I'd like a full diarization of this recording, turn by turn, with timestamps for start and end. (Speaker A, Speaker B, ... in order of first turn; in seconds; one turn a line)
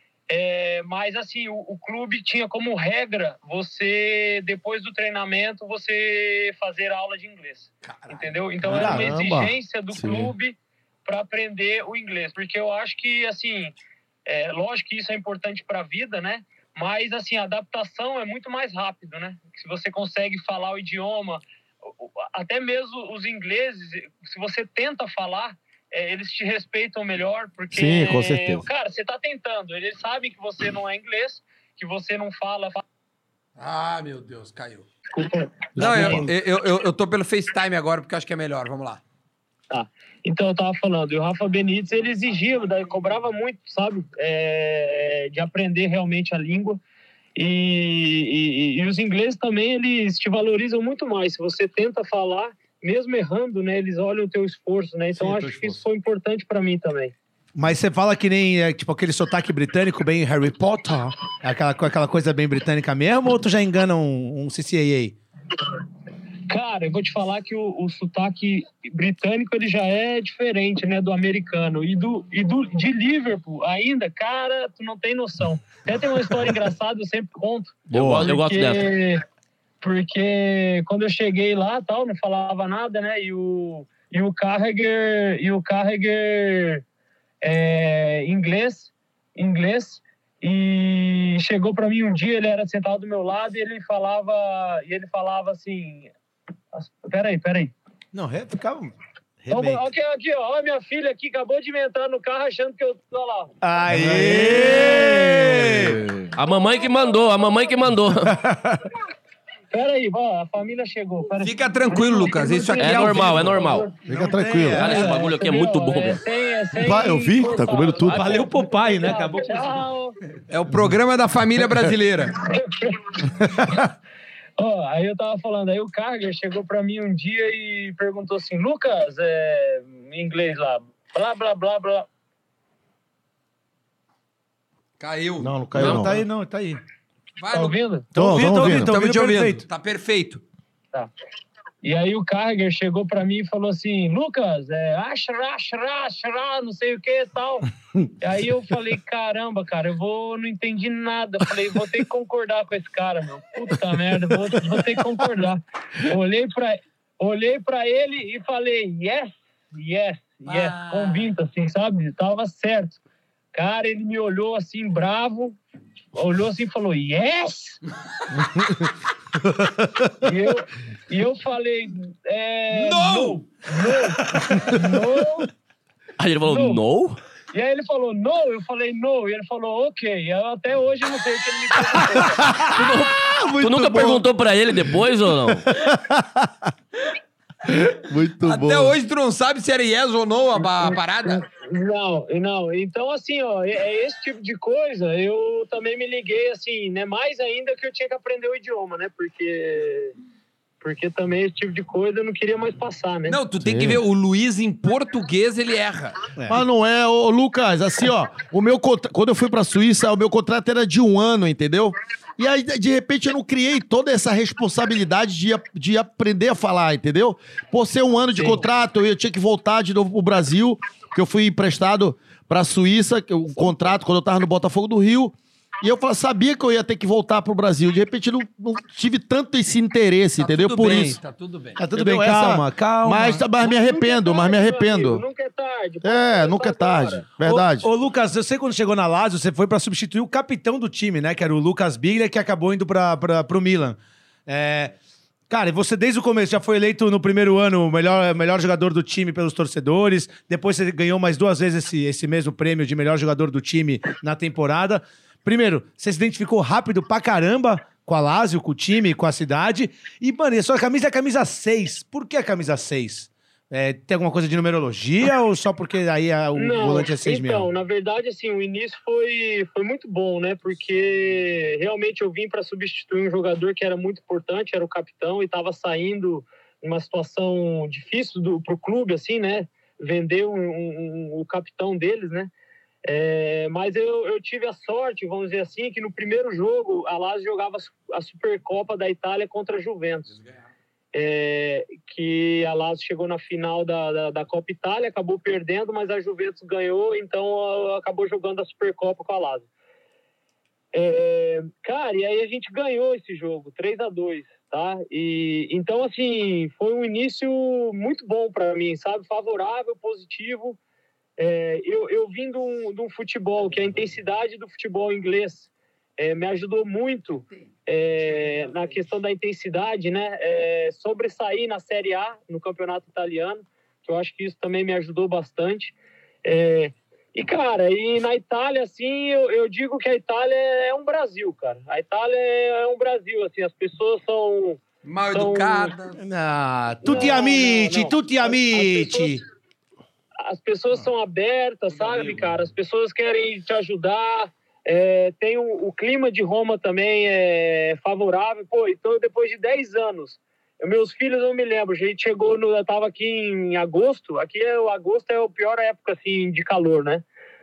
Speaker A: 0.3-13.7
Speaker B: 7.8-8.3
Speaker C: 8.7-9.2
Speaker D: 8.7-10.3
Speaker A: 14.2-32.8
Speaker D: 27.7-28.6
Speaker B: 33.6-34.9
Speaker A: 35.1-36.2
Speaker D: 35.8-36.3
Speaker B: 35.8-39.0
Speaker A: 39.7-46.8
Speaker A: 47.4-57.1
Speaker D: 55.1-55.8
Speaker C: 57.5-65.2
Speaker A: 66.5-79.2
Speaker E: 77.9-78.9
Speaker D: 77.9-78.3
Speaker A: 79.8-86.8
Speaker A: 87.4-96.1
Speaker A: 96.7-97.7
Speaker C: 98.1-99.8
Speaker A: 99.5-103.5
Speaker C: 103.6-106.0
Speaker D: 103.9-106.3
Speaker E: 106.3-108.3
Speaker A: 107.1-107.4
Speaker C: 108.2-108.8
Speaker A: 109.7-113.9
Speaker B: 111.4-113.8
Speaker E: 112.8-113.9
Speaker D: 114.0-115.0
Speaker C: 114.0-115.3
Speaker E: 114.7-116.2
Speaker A: 114.8-120.2
Speaker D: 116.8-118.5
Speaker C: 118.0-119.8
Speaker B: 120.5-122.4
Speaker A: 122.4-123.8
Speaker A: 124.6-132.1
Speaker B: 135.0-135.5
Speaker D: 135.4-136.2
Speaker C: 135.7-136.8
Speaker B: 137.4-137.8
Speaker A: 137.5-138.1
Speaker D: 138.1-138.9
Speaker C: 138.1-139.7
Speaker B: 138.3-140.4
Speaker A: 141.8-147.7
Speaker A: 148.2-163.0
Speaker B: 160.5-161.3
Speaker A: 163.5-165.6
Speaker A: 166.1-167.8
Speaker D: 168.4-168.8
Speaker A: 170.2-175.5
Speaker B: 172.7-173.4
Speaker E: 176.2-177.2
Speaker A: 176.4-176.8
Speaker A: 177.5-182.4
Speaker D: 182.2-182.7
Speaker E: 182.6-185.7
Speaker B: 182.7-184.3
Speaker D: 185.8-186.4
Speaker D: 187.7-188.9
Speaker B: 188.4-191.4
Speaker A: 190.6-200.1
Speaker A: 200.8-203.4
Speaker B: 203.3-206.2
Speaker D: 203.6-204.0
Speaker C: 206.4-206.6
Speaker D: 206.5-231.2
Speaker B: 230.4-231.8
Speaker C: 231.8-233.5
Speaker D: 231.9-235.2
Speaker A: 233.6-237.2
Speaker D: 236.0-237.9
Speaker C: 237.4-244.9
Speaker C: 245.5-267.7
Speaker A: 266.6-282.5
Speaker A: 283.1-290.4
Speaker A: 291.1-299.6
Speaker A: 300.9-310.8
Speaker A: 311.4-335.9
Speaker B: 335.0-336.2
Speaker C: 336.2-339.4
Speaker A: 337.0-339.4
Speaker A: 340.4-357.2
Speaker C: 342.0-342.4